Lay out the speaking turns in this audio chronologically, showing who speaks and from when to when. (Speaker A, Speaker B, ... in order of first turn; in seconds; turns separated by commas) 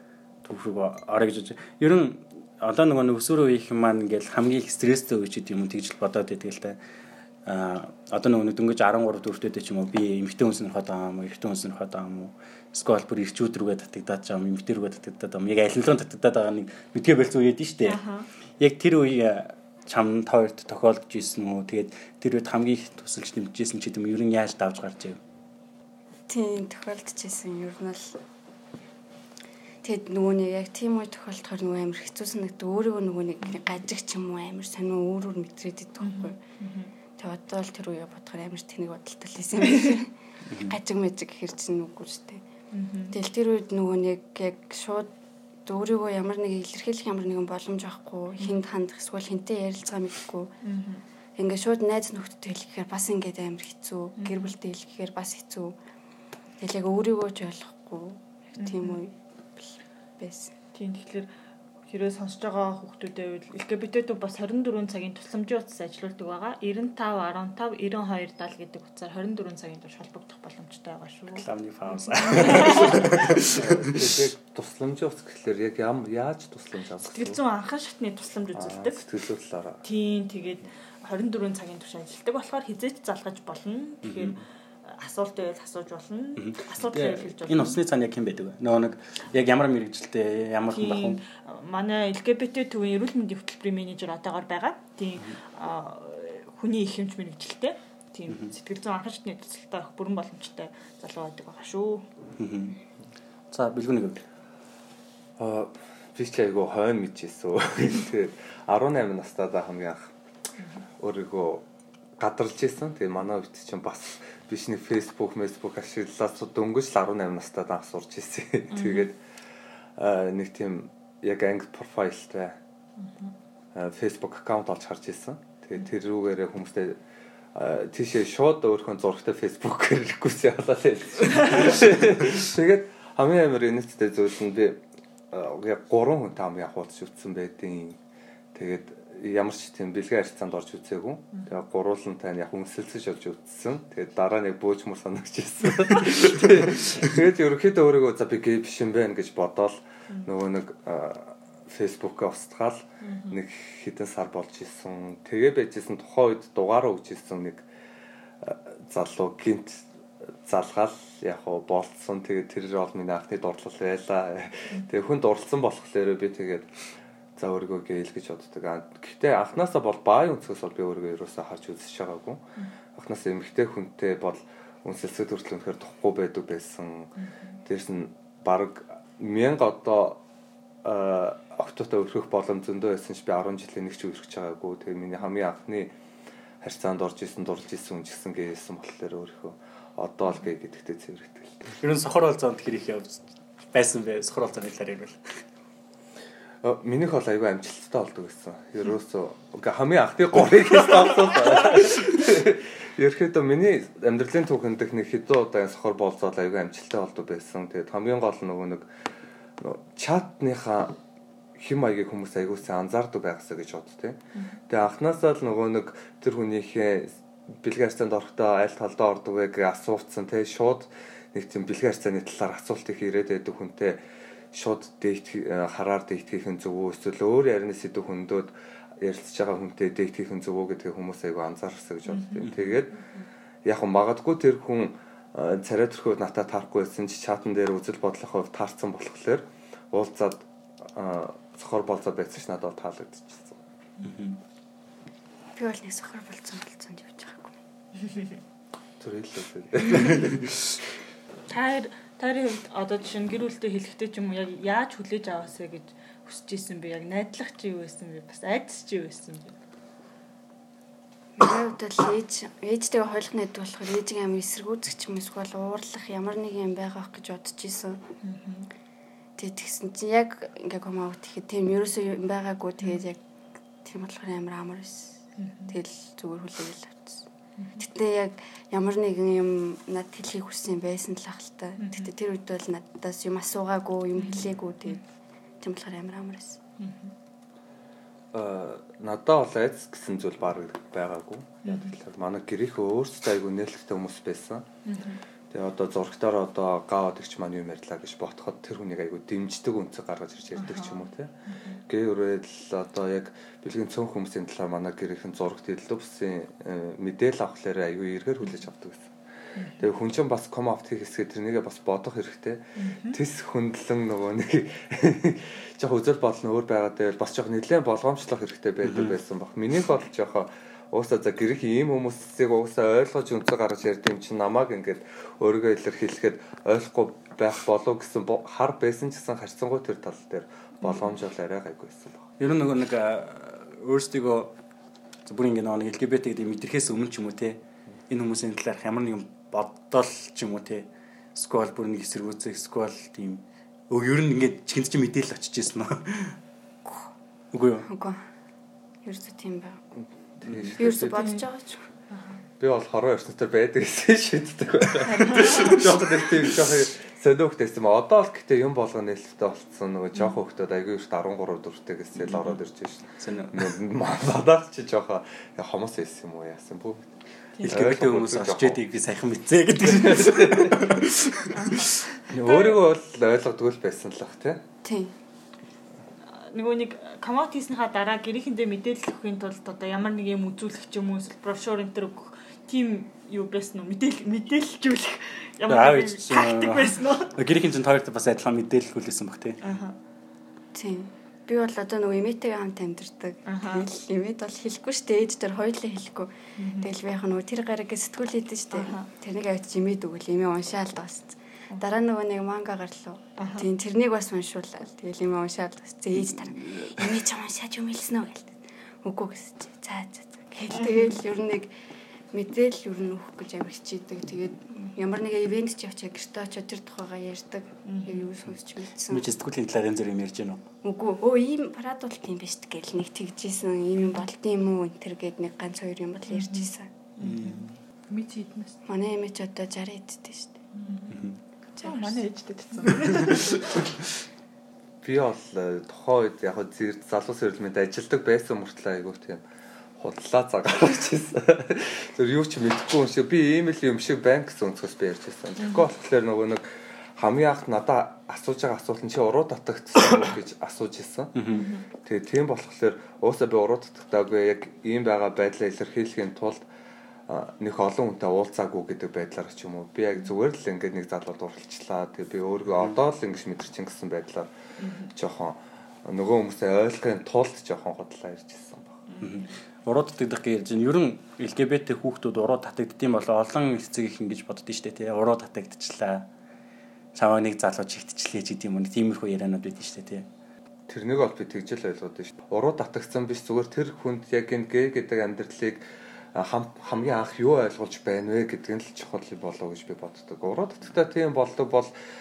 Speaker A: 0.4-6.8, Speaker A: 7.5-18.0, Speaker B: 17.9-18.3, Speaker A: 18.6-25.2, Speaker C: 26.3-28.2, Speaker C: 29.8-36.4, Speaker B: 36.0-36.9, Speaker C: 37.2-42.4, Speaker A: 40.5-40.8, Speaker B: 42.7-43.2, Speaker C: 43.1-45.1, Speaker C: 45.6-50.5, Speaker B: 50.6-51.0, Speaker C: 51.4-55.8, Speaker B: 54.2-54.5, Speaker C: 56.6-60.5, Speaker B: 58.6-59.0, Speaker B: 60.7-61.3, Speaker B: 61.9-73.4, Speaker A: 71.4-74.1, Speaker D: 72.9-77.4, Speaker B: 77.0-79.0, Speaker D: 78.5-79.8, Speaker B: 79.8-87.8, Speaker A: 84.0-84.4, Speaker A: 86.4-91.2, Speaker B: 90.7-102.1, Speaker A: 98.3-98.5, Speaker A: 102.4-102.8, Speaker A: 103.5-104.2, Speaker D: 105.4-110.1, Speaker B: 110.6-110.8, Speaker D: 111.0-111.7, Speaker D: 112.2-119.2, Speaker B: 118.7-119.1, Speaker D: 120.0-122.6, Speaker B: 123.0-123.3, Speaker D: 123.7-127.0, Speaker D: 127.5-138.0, Speaker D: 138.5-157.7, Speaker B: 153.0-153.4, Speaker D: 158.4-159.9, Speaker D: 160.4-166.7, Speaker D: 167.4-172.4, Speaker D: 172.9-177.1, Speaker B: 177.2-177.5, Speaker D: 177.7-180.2, Speaker D: 180.8-185.9, Speaker D: 186.6-191.7, Speaker A: 191.8-195.2, Speaker D: 196.6-208.9, Speaker D: 209.6-211.0, Speaker D: 211.6-224.0, Speaker D: 224.5-233.0, Speaker B: 232.1-232.8, Speaker D: 233.7-243.6, Speaker A: 244.0-244.4, Speaker C: 245.6-247.6, Speaker D: 249.0-250.6, Speaker B: 251.5-259.6, Speaker C: 261.4-268.0, Speaker B: 268.2-268.7, Speaker C: 269.4-273.2, Speaker C: 273.8-285.0, Speaker B: 275.4-275.7, Speaker B: 277.6-277.9, Speaker B: 281.8-282.1, Speaker B: 284.2-285.0, Speaker C: 285.6-286.6, Speaker B: 286.8-287.1, Speaker D: 288.3-294.7, Speaker B: 291.6-292.0, Speaker B: 294.9-295.2, Speaker D: 295.5-301.3, Speaker B: 300.6-301.8, Speaker D: 301.9-309.1, Speaker B: 309.6-309.9, Speaker D: 309.8-332.2, Speaker B: 312.8-313.2, Speaker A: 318.8-319.2, Speaker B: 330.8-331.1, Speaker A: 332.4-334.5, Speaker A: 335.3-346.4, Speaker A: 347.5-347.9, Speaker C: 347.8-348.2, Speaker C: 349.0-349.8, Speaker D: 350.0-351.4, Speaker A: 350.5-350.8, Speaker C: 350.8-351.9, Speaker B: 351.1-351.5, Speaker B: 352.1-352.4, Speaker D: 352.6-367.1, Speaker B: 355.1-355.8, Speaker A: 363.2-363.8, Speaker A: 367.6-372.0, Speaker D: 367.6-368.8, Speaker D: 369.9-370.9, Speaker B: 371.5-372.8, Speaker D: 372.3-374.6, Speaker C: 374.8-375.1, Speaker B: 376.4-387.3, Speaker A: 385.7-389.6, Speaker B: 389.6-390.0, Speaker C: 390.7-411.7, Speaker B: 393.5-393.9, Speaker B: 396.6-396.9, Speaker B: 398.8-399.1, Speaker B: 403.4-403.7, Speaker A: 406.6-407.0, Speaker B: 410.7-411.1, Speaker C: 412.3-419.3, Speaker B: 417.9-418.3, Speaker A: 419.1-420.6, Speaker C: 420.8-426.9, Speaker B: 426.3-428.8, Speaker A: 427.2-427.7, Speaker C: 428.9-430.6, Speaker B: 430.8-431.2, Speaker A: 431.1-431.4, Speaker C: 431.8-432.2, Speaker B: 431.8-433.8, Speaker A: 433.1-433.8, Speaker D: 435.0-439.4, Speaker D: 440.0-446.6, Speaker B: 445.6-445.9, Speaker D: 447.2-456.6, Speaker A: 451.3-451.7, Speaker B: 451.5-451.9, Speaker D: 457.3-464.5, Speaker B: 464.8-465.1, Speaker D: 465.1-469.0, Speaker B: 469.1-469.4, Speaker A: 469.2-476.3, Speaker A: 477.1-480.3, Speaker D: 480.9-485.8, Speaker D: 486.4-491.9